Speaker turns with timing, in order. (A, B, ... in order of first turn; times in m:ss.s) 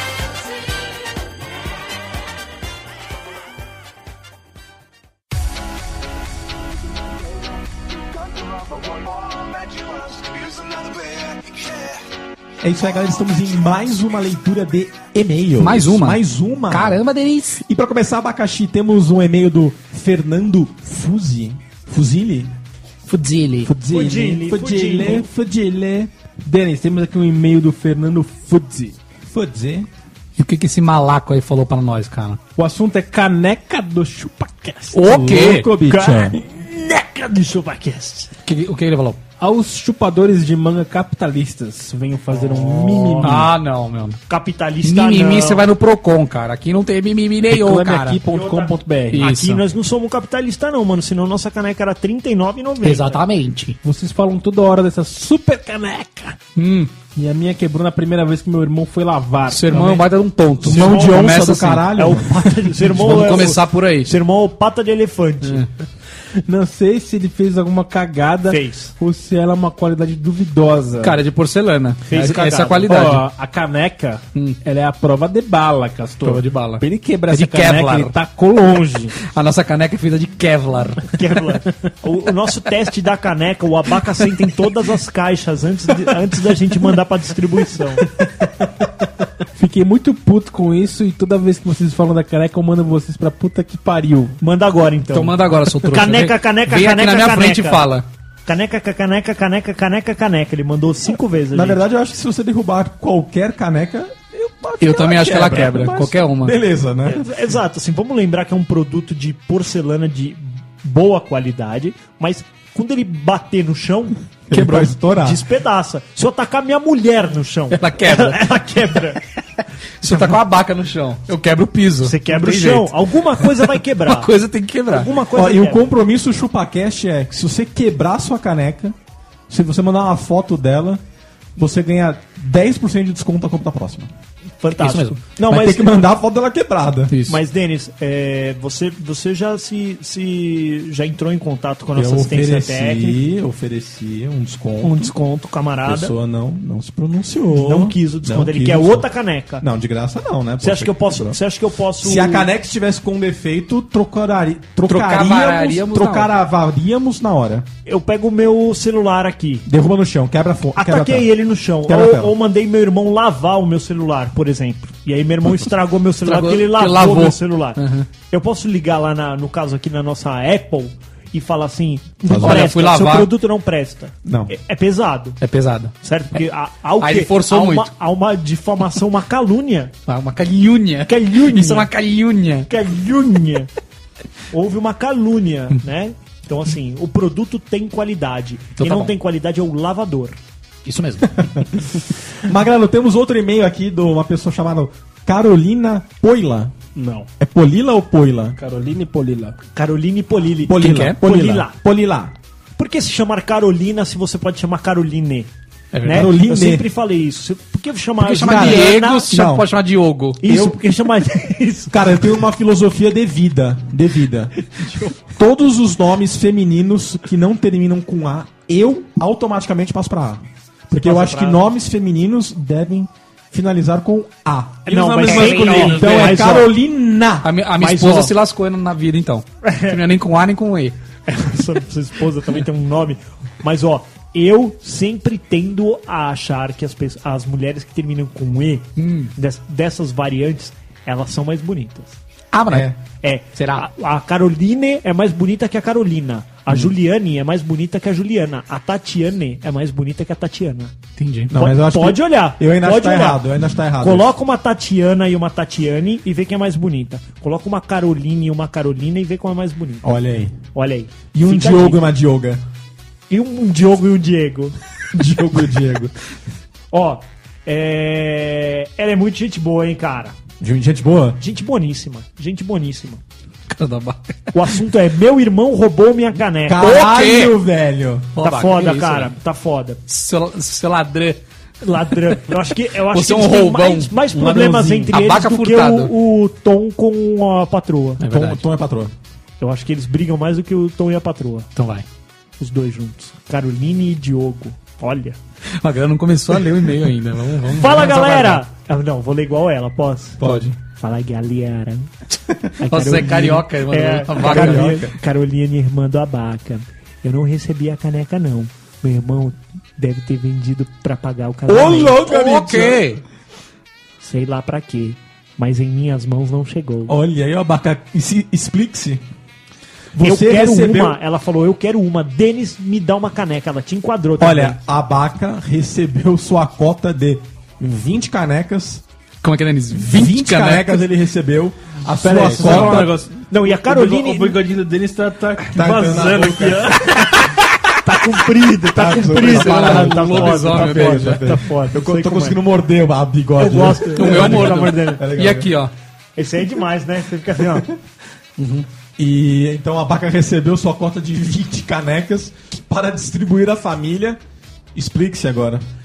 0:12.6-0:17.0 A
0:15.6-0:17.6 B
0:17.6-0:22.5 A
0:23.1-0:23.7 B
0:23.7-0:25.2 C
0:23.9-0:25.2 D
0:23.9-0:26.1 A
0:26.4-0:29.0 C
0:29.3-0:29.9 A
0:30.4-0:32.4 B
0:32.6-0:35.0 C
0:34.9-0:35.7 B
0:35.0-0:36.4 A
0:35.9-0:38.3 D
0:38.4-0:39.2 B
0:39.4-0:43.5 C
0:42.7-0:44.2 B
0:43.0-0:43.3 D
0:44.3-0:45.7 D
0:44.8-0:48.2 B
0:47.5-0:49.3 C
0:48.3-0:53.2 D
0:49.1-0:49.6 B
0:52.8-0:53.8 B
0:53.8-0:56.4 C
0:56.6-0:56.9 B
0:57.2-1:00.1 C
0:59.5-1:01.9 B
1:00.7-1:01.0 D
1:00.7-1:02.6 A
1:02.0-1:05.7 D
1:02.7-1:04.1 B
1:06.4-1:11.2 C
1:08.5-1:08.9 D
1:11.0-1:13.3 B
1:12.1-1:12.9 D
1:12.9-1:19.2 C
1:16.2-1:18.2 B
1:19.2-1:21.1 B
1:21.1-1:28.1 D
1:29.6-1:34.4 C
1:34.4-1:35.4 D
1:35.1-1:38.1 B
1:35.9-1:37.8 D
1:38.5-1:41.8 D
1:41.5-1:47.3 A
1:44.8-1:46.6 B
1:47.1-1:59.2 D
1:54.5-1:55.4 A
1:54.5-1:54.9 B
1:57.7-1:58.6 B
2:00.0-2:05.1 B
2:02.0-2:04.3 D
2:04.9-2:05.9 D
2:05.3-2:09.0 A
2:09.5-2:11.0 A
2:11.6-2:14.1 A
2:14.6-2:15.7 D
2:14.8-2:15.7 B
2:15.4-2:17.2 A
2:17.1-2:17.4 B
2:17.3-2:23.2 D
2:22.0-2:25.1 A
2:24.8-2:26.1 D
2:25.8-2:29.1 A
2:27.5-2:29.6 D
2:29.6-2:31.4 A
2:30.6-2:32.5 D
2:32.0-2:37.7 A
2:34.9-2:36.3 B
2:37.9-2:39.7 D
2:39.7-2:42.4 A
2:40.8-2:55.4 D
2:46.2-2:48.1 B
2:52.2-2:52.7 A
2:52.3-2:53.3 B
2:54.2-2:54.5 A
2:55.4-2:56.4 B
2:56.0-2:59.9 D
2:57.0-2:57.9 B
3:00.1-3:02.7 B
3:01.1-3:01.9 D
3:02.7-3:03.7 D
3:04.5-3:10.4 D
3:08.8-3:09.1 B
3:10.8-3:11.7 B
3:12.4-3:16.7 A
3:17.0-3:17.3 C
3:17.4-3:18.6 A
3:18.6-3:19.6 C
3:19.8-3:21.8 D
3:20.6-3:22.4 A
3:20.8-3:21.2 B
3:22.8-3:25.5 D
3:25.9-3:26.3 B
3:26.0-3:29.3 D
3:26.1-3:26.9 A
3:28.2-3:30.4 B
3:28.4-3:29.7 A
3:30.4-3:32.2 D
3:30.4-3:30.8 A
3:31.9-3:34.5 A
3:35.3-3:47.5 A
3:41.0-3:41.6 D
3:44.9-3:46.5 C
3:44.9-3:46.7 D
3:47.4-3:51.0 B
3:47.8-3:48.3 D
3:49.6-3:50.0 D
3:51.3-4:02.2 D
3:59.0-3:59.3 B
4:02.5-4:02.9 B
4:02.7-4:03.0 A
4:03.2-4:10.9 D
4:03.6-4:03.9 B
4:11.2-4:11.5 B
4:11.5-4:14.3 A
4:11.5-4:20.2 D
4:20.0-4:20.6 A
4:20.7-4:22.1 D
4:21.3-4:22.6 A
4:23.3-4:24.8 D
4:25.1-4:26.1 A
4:26.9-4:30.4 D
4:30.6-4:31.4 A
4:31.4-4:33.2 D
4:33.7-4:34.4 B
4:34.5-4:36.9 D
4:36.7-4:38.4 A
4:36.8-4:37.6 B
4:38.4-4:39.3 B
4:38.4-4:40.0 D
4:40.1-4:41.4 B
4:41.8-4:48.2 D
4:43.1-4:44.1 B
4:44.3-4:45.1 C
4:45.1-4:46.1 B
4:48.2-4:48.6 B
4:48.3-4:49.1 A
4:49.6-4:51.7 D
4:51.8-4:52.1 B
4:52.6-4:55.4 D
4:55.8-4:58.6 B
4:57.7-5:00.4 D
5:00.4-5:00.8 A
5:00.4-5:00.8 B
5:01.0-5:02.1 D
5:02.8-5:12.2 D
5:02.9-5:05.0 B
5:04.4-5:05.1 A
5:11.7-5:13.1 A
5:12.1-5:13.2 B
5:14.2-5:17.2 D
5:17.1-5:19.2 A
5:20.1-5:21.2 A
5:20.2-5:24.8 D
5:24.4-5:29.0 A
5:29.4-5:31.0 B
5:29.9-5:33.2 A
5:32.2-5:37.2 C
5:32.4-5:33.1 B
5:33.5-5:34.6 D
5:35.7-5:37.3 A
5:38.0-5:42.6 D
5:38.9-5:45.7 A
5:39.3-5:41.6 B
5:43.6-5:45.2 D
5:44.1-5:45.9 B
5:46.4-5:47.9 D
5:48.6-5:48.9 B
5:49.2-5:54.4 A
5:55.0-5:55.8 A